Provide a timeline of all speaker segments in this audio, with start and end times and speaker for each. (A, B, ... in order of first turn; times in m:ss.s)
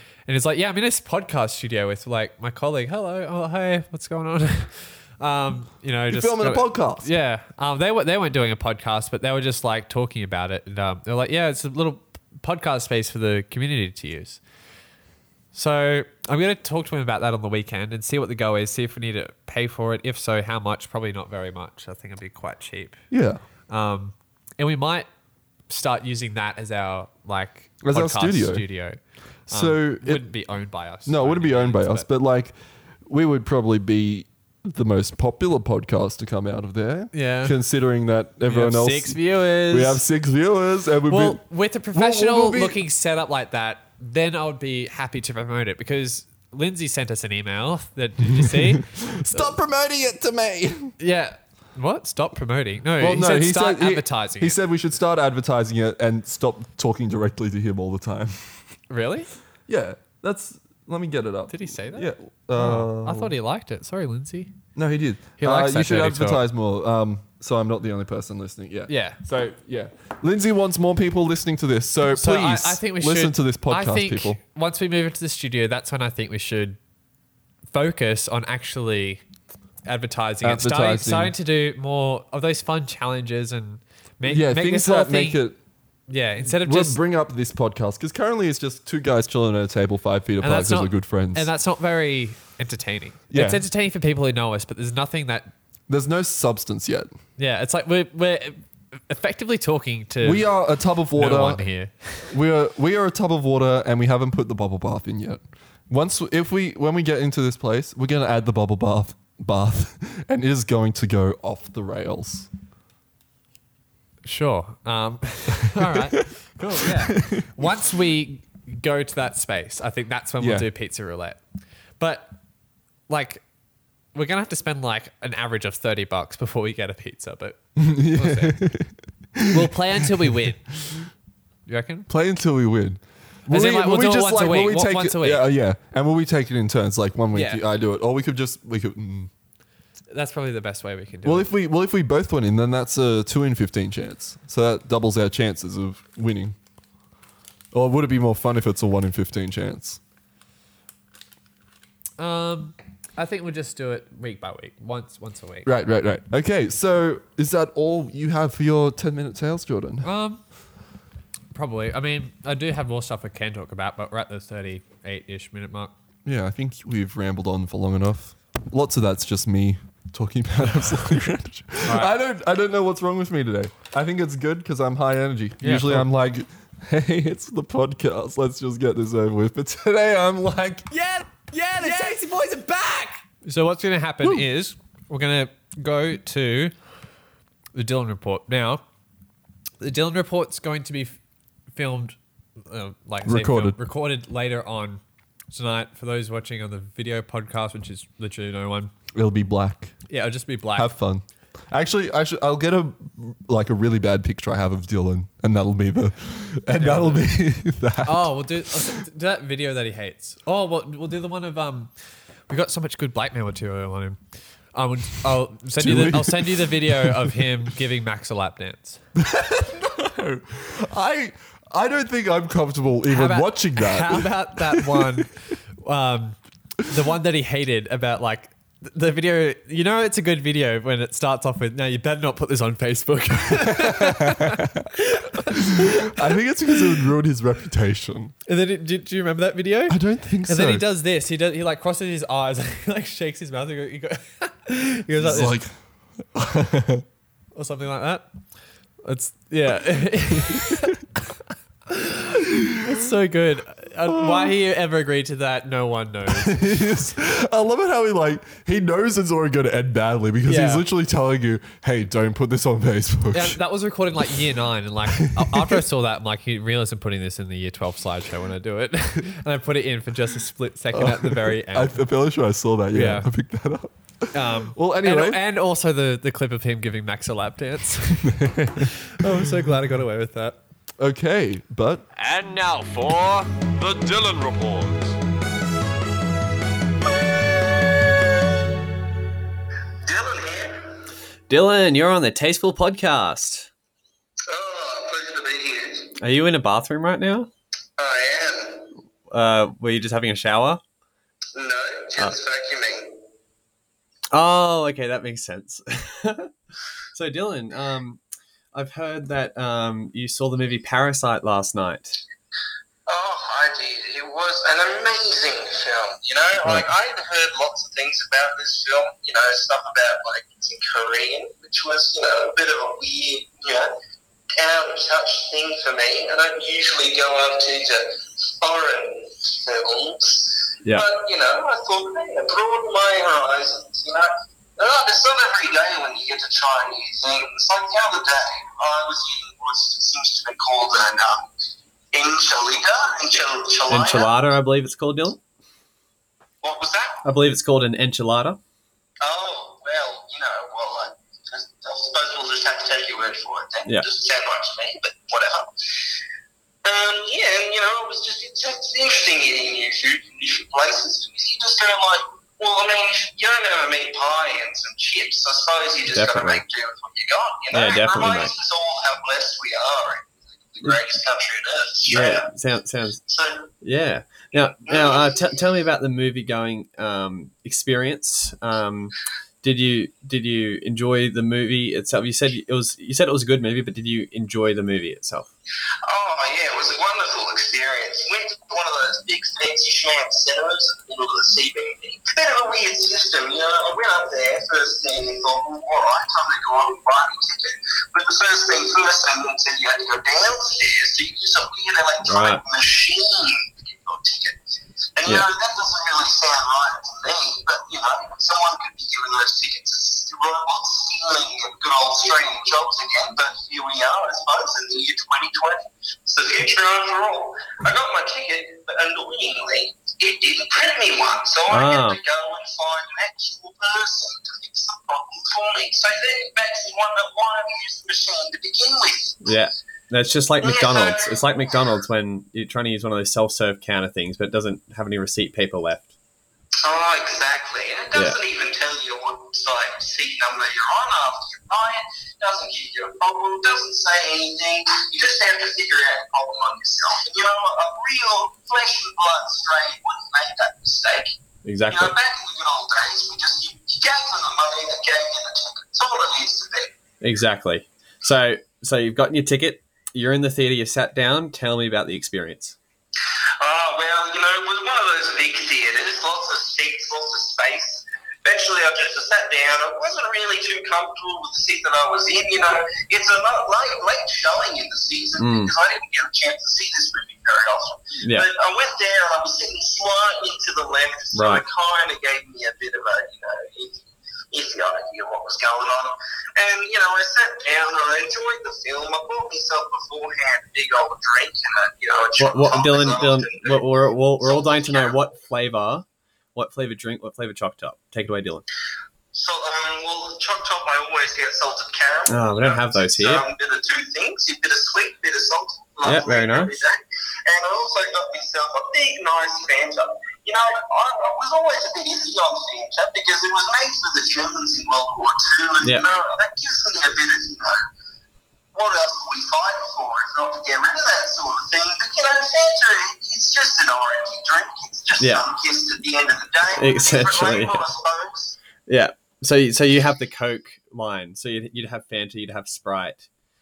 0:00.3-0:14.4 A
0:06.1-0:07.1 B
0:15.5-0:23.0 A
0:23.1-0:23.4 B
0:23.7-0:25.1 A
0:25.7-0:32.1 A
0:27.8-0:28.7 B
0:29.5-0:30.3 B
0:31.0-0:32.6 B
0:33.1-0:42.8 B
0:37.1-0:37.6 A
0:38.5-0:40.0 A
0:41.1-0:49.5 A
0:48.2-0:51.0 B
0:51.0-0:54.6 A
0:53.0-0:58.5 B
0:58.9-0:59.3 A
0:59.7-1:03.3 B
1:01.5-1:04.5 A
1:04.8-1:14.4 B
1:05.4-1:06.5 A
1:08.9-1:09.2 A
1:12.1-1:16.8 A
1:17.7-1:19.2 A
1:19.8-1:25.4 A
1:20.4-1:21.3 B
1:24.2-1:25.6 B
1:26.1-1:27.0 A
1:26.4-1:31.5 B
1:30.4-1:35.5 A
1:33.3-1:33.6 B
1:35.9-1:37.1 B
1:37.4-1:40.5 A
1:40.2-1:41.6 B
1:41.1-1:42.3 A
1:42.3-1:52.5 B
1:54.2-2:01.4 A
1:55.8-1:56.1 B
1:56.9-1:57.7 B
2:00.4-2:00.7 B
2:02.0-2:02.3 A
2:03.1-2:03.4 A
2:04.1-2:08.6 A
2:07.8-2:09.7 B
2:09.5-2:10.6 A
2:11.7-2:12.1 A
2:12.1-2:19.3 B
2:13.5-2:15.5 A
2:17.3-2:17.6 A
2:20.1-2:21.5 A
2:21.2-2:26.6 B
2:27.7-2:30.0 B
2:32.2-2:35.7 A
2:35.6-2:40.1 B
2:40.0-2:40.4 A
2:41.5-2:45.9 A
2:46.2-3:00.9 B
2:51.9-2:52.1 A
2:55.6-2:56.1 A
3:00.9-3:06.7 A
3:07.7-3:08.8 A
3:09.8-3:11.2 A
3:11.8-3:15.0 A
3:13.2-3:13.8 B
3:15.5-3:18.9 A
3:19.2-3:20.0 B
3:20.1-3:21.0 A
3:20.8-3:29.0 B
3:26.7-3:27.3 A
3:28.0-3:31.9 A
3:32.5-3:34.2 A
3:34.7-3:39.0 A
3:35.8-3:37.4 B
3:39.2-3:45.3 B
3:43.1-3:56.2 A
3:53.6-3:54.8 B
3:55.6-3:58.3 B
3:58.5-4:05.6 A
3:59.9-4:00.9 B
4:05.2-4:07.0 B
4:07.6-4:08.3 A
4:09.0-4:11.0 A
4:11.9-4:12.2 A
4:12.8-4:16.6 A
4:14.1-4:14.6 B
4:16.3-4:23.6 B
4:20.5-4:20.8 A
4:23.3-4:32.0 A
4:25.2-4:25.8 B
4:30.9-4:35.4 B
4:32.9-4:33.3 A
4:34.3-4:40.6 A
4:38.2-4:39.6 B
4:41.0-4:42.1 B
4:42.2-4:45.2 C
4:50.0-4:50.8 D
4:51.5-4:53.7 E
4:54.5-4:56.1 D
4:56.2-4:57.5 E
4:58.0-4:58.9 D
4:59.3-5:00.8 E
5:01.6-5:03.1 D
5:04.3-5:06.5 E
5:07.1-5:08.2 E
5:08.7-5:12.2 E
5:13.1-5:23.9 D
5:24.6-5:41.5 D
5:42.1-5:44.3 D
5:43.9-5:45.4 E
5:46.6-5:47.2 D
5:47.2-5:48.6 E
5:49.2-5:55.7 D
5:56.8-6:12.5 D
6:06.1-6:06.6 E
6:07.7-6:08.5 E
6:12.1-6:13.2 E
6:13.2-6:13.7 D
6:13.8-6:25.5 E
6:14.8-6:15.5 D
6:26.1-6:44.6 D
6:42.3-6:42.6 E
6:45.2-7:09.4 D
7:01.7-7:02.2 E
7:09.4-7:16.1 E
7:10.6-7:11.8 D
7:16.8-7:31.3 D
7:18.1-7:18.4 E
7:31.6-7:32.1 E
7:31.9-7:36.9 D
7:37.2-7:42.8 E
7:43.6-8:13.9 D
7:55.4-7:55.7 E
7:58.2-7:58.5 E
8:01.4-8:01.6 E
8:12.4-8:18.6 E
8:14.4-8:15.2 D
8:19.3-8:37.8 D
8:22.3-8:23.4 E
8:26.0-8:26.8 E
8:38.7-8:48.6 D
8:45.2-8:45.4 E
8:46.8-8:47.8 E
8:48.9-8:53.3 E